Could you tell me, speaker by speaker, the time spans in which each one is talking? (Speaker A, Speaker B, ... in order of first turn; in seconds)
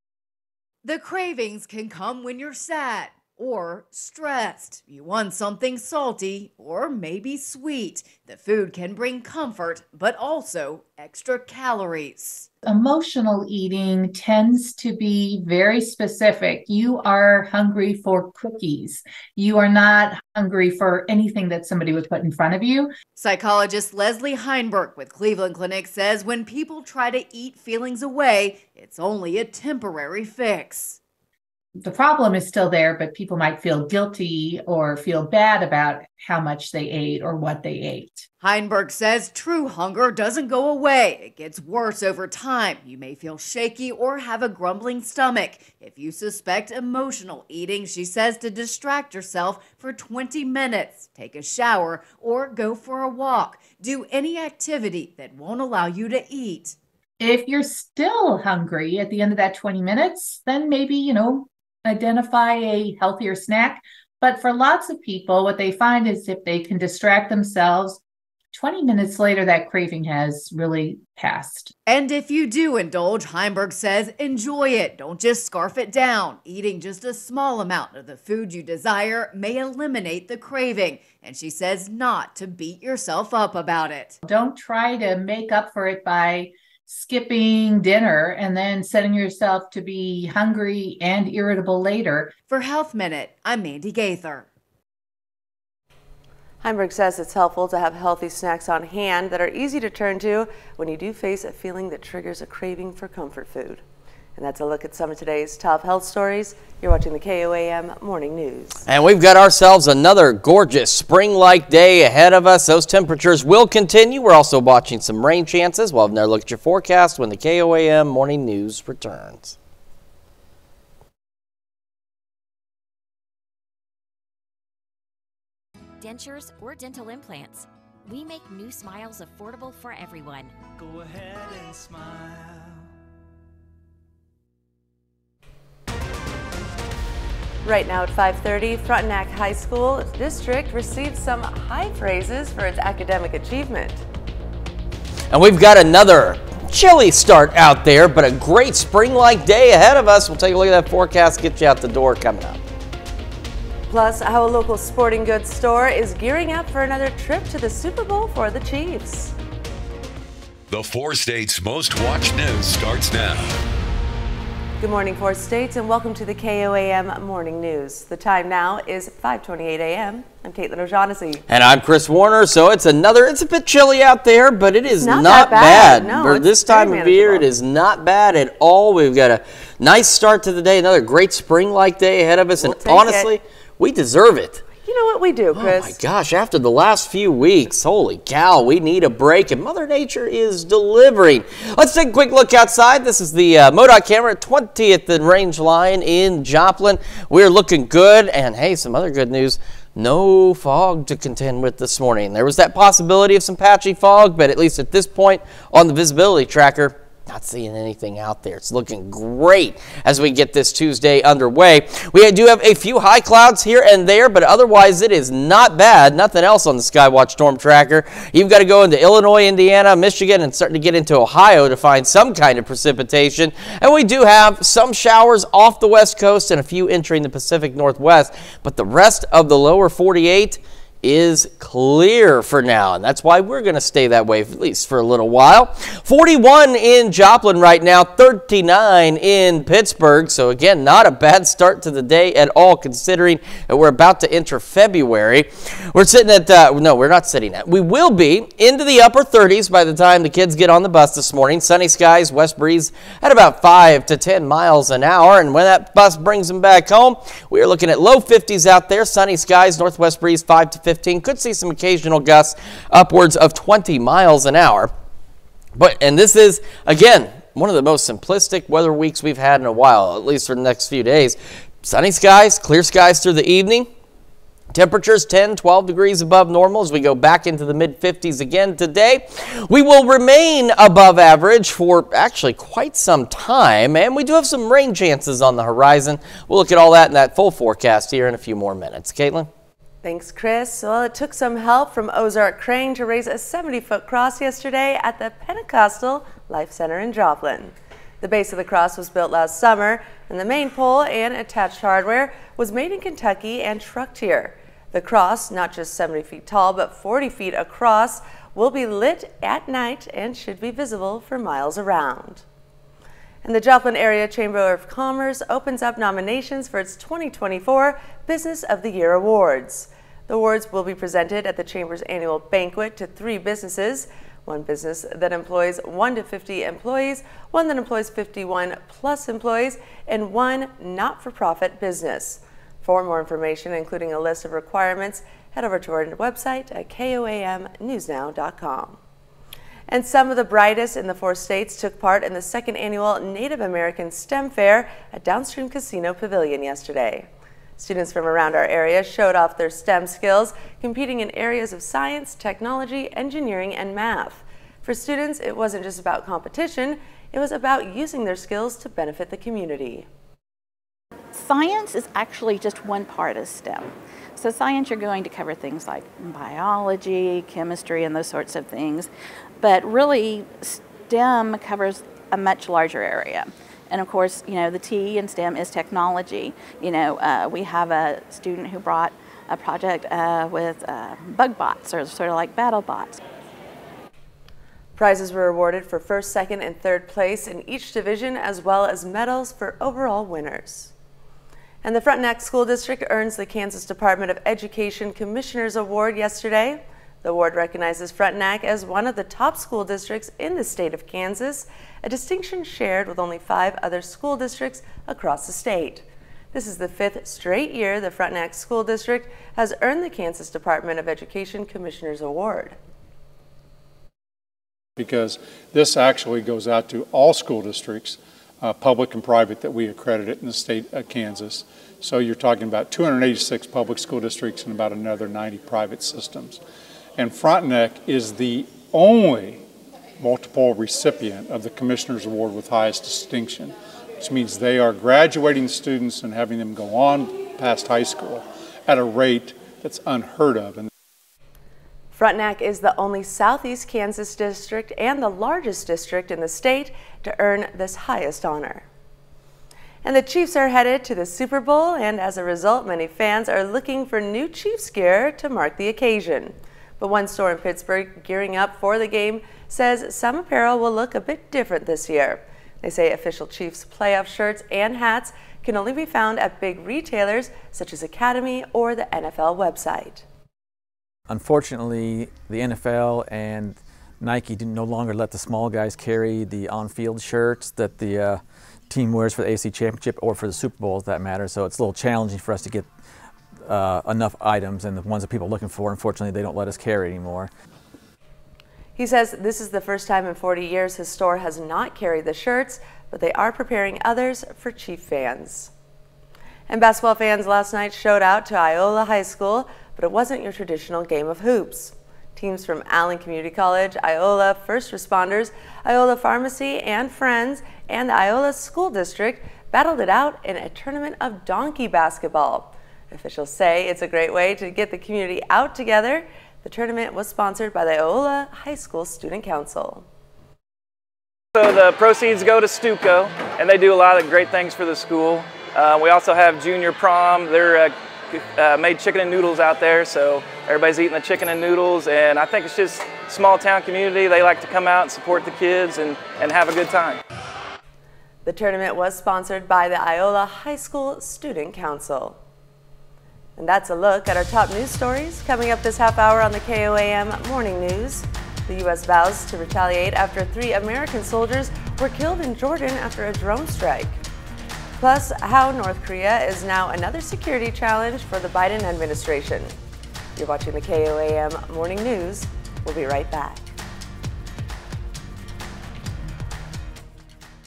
Speaker A: 0.8-12.5, 23.1-31.0, 38.4-56.8, 71.9-84.2, 92.5-94.5
Speaker B: 12.7-22.9, 31.8-38.3, 57.2-68.0, 68.5-71.7, 84.2-92.4
Speaker C: 96.6-103.8, 104.4-108.8, 137.6-144.0, 153.9-159.3, 164.8-171.4, 175.0-177.5, 182.6-183.3, 184.8-186.0, 290.0-312.4, 313.4-339.0, 339.9-360.1, 385.0-390.9, 391.8-412.8, 442.1-448.9, 450.0-470.2, 489.0-495.7, 496.7-520.1, 538.5-542.4, 543.6-554.2, 555.0-559.7, 560.4-563.7
Speaker D: 108.9-119.6, 145.3-152.6, 171.5-184.7, 185.5-264.9, 265.8-273.9, 274.7-289.5
Speaker E: 126.0-130.6
Speaker F: 160.7-163.6
Speaker G: 361.3-369.1, 369.6-383.2
Speaker H: 415.0-426.6, 427.2-429.6, 430.2-440.9
Speaker I: 471.3-482.9, 483.7-487.5
Speaker J: 521.6-537.2